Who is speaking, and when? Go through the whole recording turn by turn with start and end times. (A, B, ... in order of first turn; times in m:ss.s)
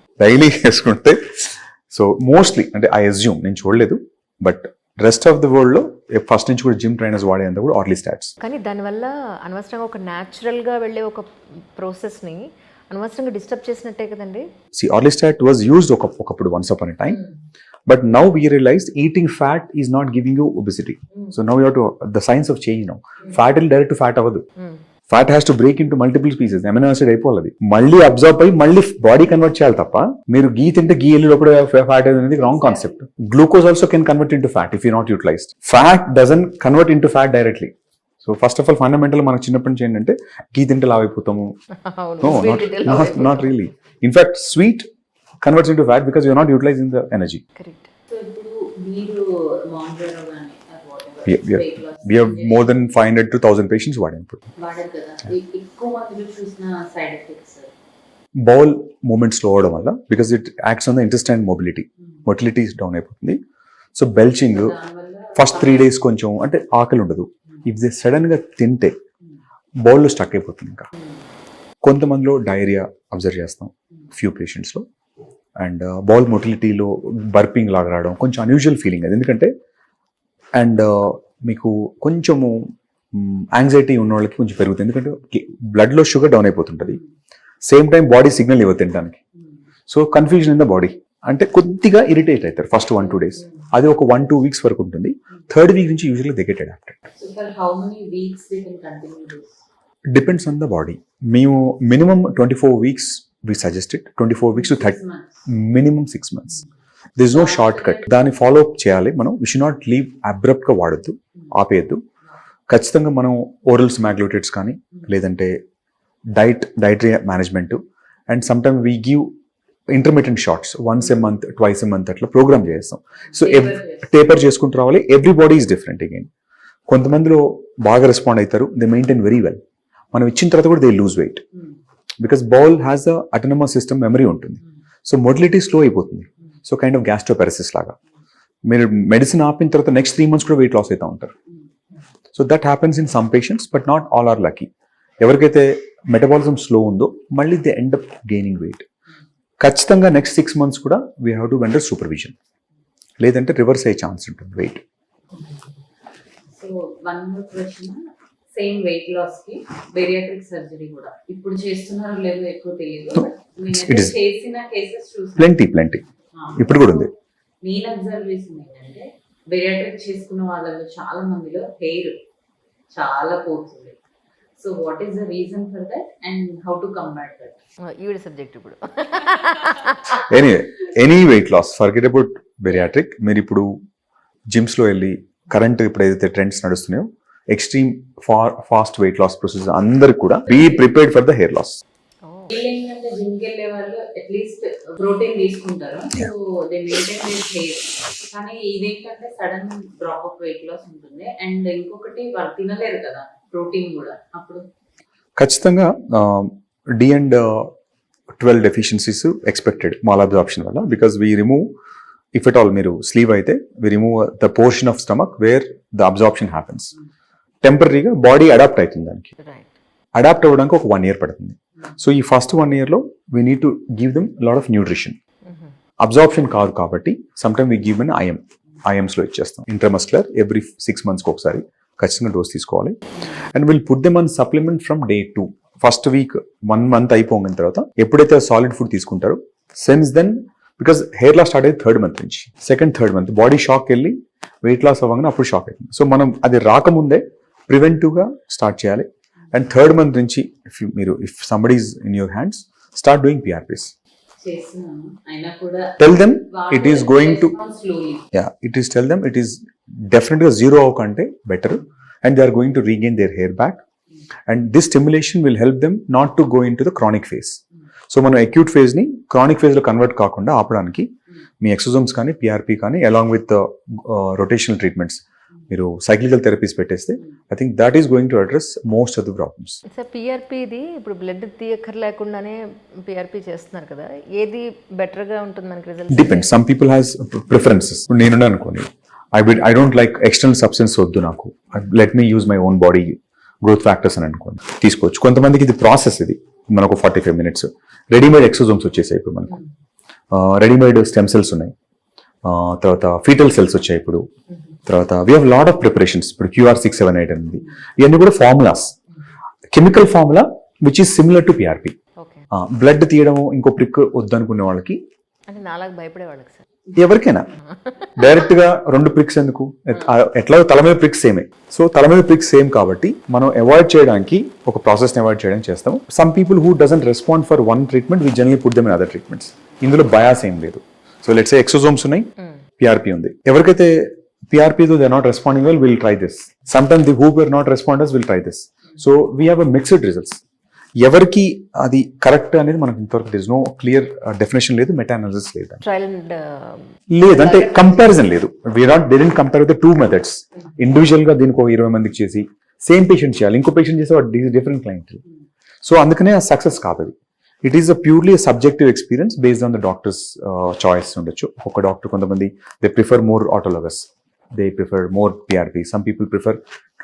0:00.2-0:08.3 A
0:08.4-0:14.5 B
0:14.7-0:17.2 A
0:17.9-0:24.4 A
0:25.1-0:41.5 A
0:41.8-0:43.6 B
0:42.2-0:44.9 A
0:45.4-0:47.4 A
0:47.6-0:47.9 B
0:48.1-0:52.8 C
0:51.2-0:54.4 A
0:54.6-0:57.7 C
0:58.4-1:03.4 A
1:03.9-1:04.8 A
1:04.5-1:06.0 C
1:05.3-1:08.9 A
1:09.8-1:10.9 A
1:11.8-1:14.8 A
1:15.6-1:19.5 A
1:20.6-1:27.0 A
1:27.6-1:29.2 A
1:29.9-1:37.0 A
1:37.2-1:39.5 C
1:40.1-1:46.6 A
1:44.5-1:45.4 C
1:47.2-1:52.0 A
1:47.3-1:48.1 C
1:52.7-1:55.6 A
1:56.4-1:59.3 A
1:59.9-2:06.3 A
2:03.3-2:04.1 C
2:06.9-2:09.6 A
2:10.1-2:11.4 A
2:12.2-2:17.9 A
2:18.7-2:21.3 A
2:22.3-2:24.7 A
2:25.2-2:28.8 A
2:29.6-2:32.3 A
2:33.2-2:34.8 A
2:36.5-2:38.0 C
2:38.5-2:45.6 C
2:43.1-2:44.1 A
2:45.4-2:46.0 A
2:46.3-2:47.1 C
2:46.6-2:47.1 A
2:47.6-2:52.1 C
2:52.9-2:54.0 C
2:54.6-2:57.6 C
2:57.8-3:00.2 B
3:00.2-3:03.7 A
3:04.5-3:11.8 A
3:12.2-3:12.6 B
3:12.5-3:24.6 C
3:25.4-3:27.7 A
3:28.4-3:31.7 A
3:32.3-3:36.9 A
3:37.6-3:39.3 A
3:39.4-3:39.7 B
3:40.1-3:45.2 A
3:45.4-3:45.7 B
3:46.0-4:13.9 A
4:14.4-4:18.2 C
4:16.0-4:17.5 A
4:18.3-4:23.8 A
4:24.5-4:39.8 A
4:39.9-4:46.5 B
4:46.1-4:59.6 A
5:00.3-5:01.7 A
5:02.4-5:04.2 A
5:04.8-5:08.9 A
5:09.7-5:12.0 A
5:12.2-5:12.4 B
5:12.5-5:15.0 A
5:15.5-5:16.6 B
5:16.9-5:17.5 A
5:17.7-5:18.3 B
5:18.2-5:40.4 A
5:41.0-5:45.8 A
5:45.8-5:48.2 B
5:47.1-5:55.2 A
5:55.8-6:06.6 A